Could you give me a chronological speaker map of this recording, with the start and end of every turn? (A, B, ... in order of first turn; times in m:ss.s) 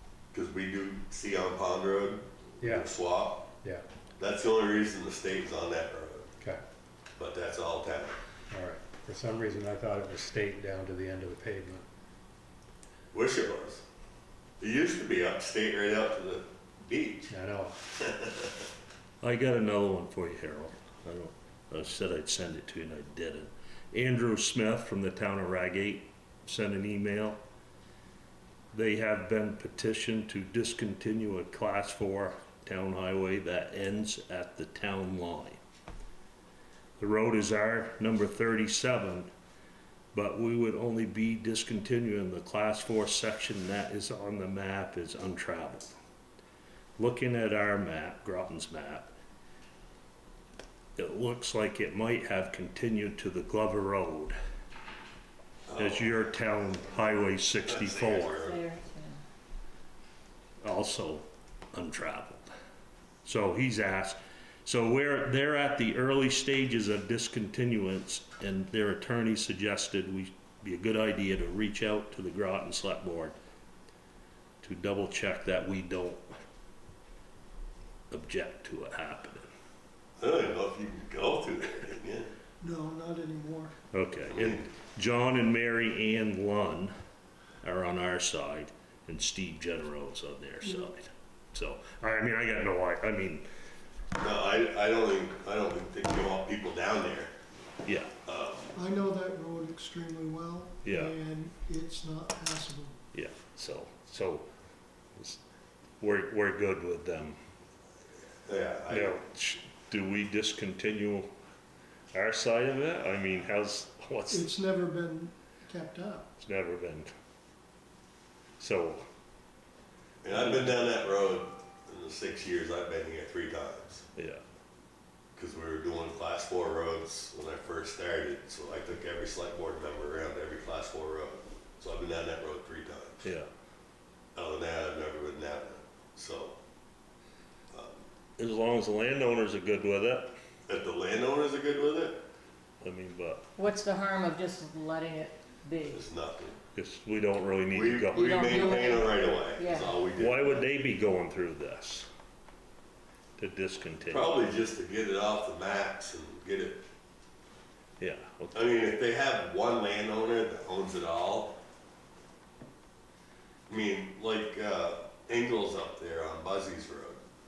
0:00.3-0:03.5 A
0:02.6-0:02.9 B
0:04.2-0:06.3 A
0:07.2-0:08.2 A
0:08.5-0:11.8 B
0:13.1-0:13.8 A
0:14.6-0:17.3 A
0:17.3-0:17.8 B
0:18.0-0:18.6 A
0:19.2-0:27.4 C
0:28.7-0:35.6 C
0:37.0-0:39.3 C
0:40.1-0:45.9 C
0:47.0-0:49.1 C
0:51.0-0:54.4 C
0:55.7-0:56.3 A
0:55.8-0:58.3 C
0:57.6-0:58.6 A
0:58.3-0:59.2 D
1:00.6-1:02.5 C
1:03.2-1:13.4 C
1:14.6-1:16.2 C
1:18.1-1:19.5 C
1:20.2-1:22.3 A
1:22.6-1:23.7 E
1:23.9-1:26.9 C
1:24.3-1:24.7 A
1:27.6-1:33.5 C
1:34.2-1:37.3 A
1:37.8-1:38.1 C
1:38.2-1:38.7 A
1:38.8-1:43.0 E
1:40.8-1:41.2 C
1:43.1-1:44.5 C
1:46.0-1:47.4 C
1:48.5-1:49.2 A
1:48.9-1:51.3 C
1:52.1-1:54.5 C
1:54.3-1:56.3 E
1:56.4-1:57.1 C
1:58.6-1:59.0 C
2:00.2-2:04.0 A
2:04.2-2:04.4 C
2:05.4-2:13.2 A
2:13.2-2:13.5 C
2:14.4-2:16.6 A
2:17.7-2:18.0 A
2:18.4-2:20.3 C
2:20.7-2:22.2 A
2:22.8-2:23.5 C
2:23.6-2:26.0 D
2:25.8-2:26.6 A
2:26.8-2:28.8 C
2:27.7-2:30.6 A
2:28.2-2:30.0 D
2:30.1-2:32.1 C
2:33.4-2:34.3 C
2:34.1-2:36.8 A
2:38.0-2:38.6 C
2:38.5-2:41.6 A
2:43.7-2:47.2 A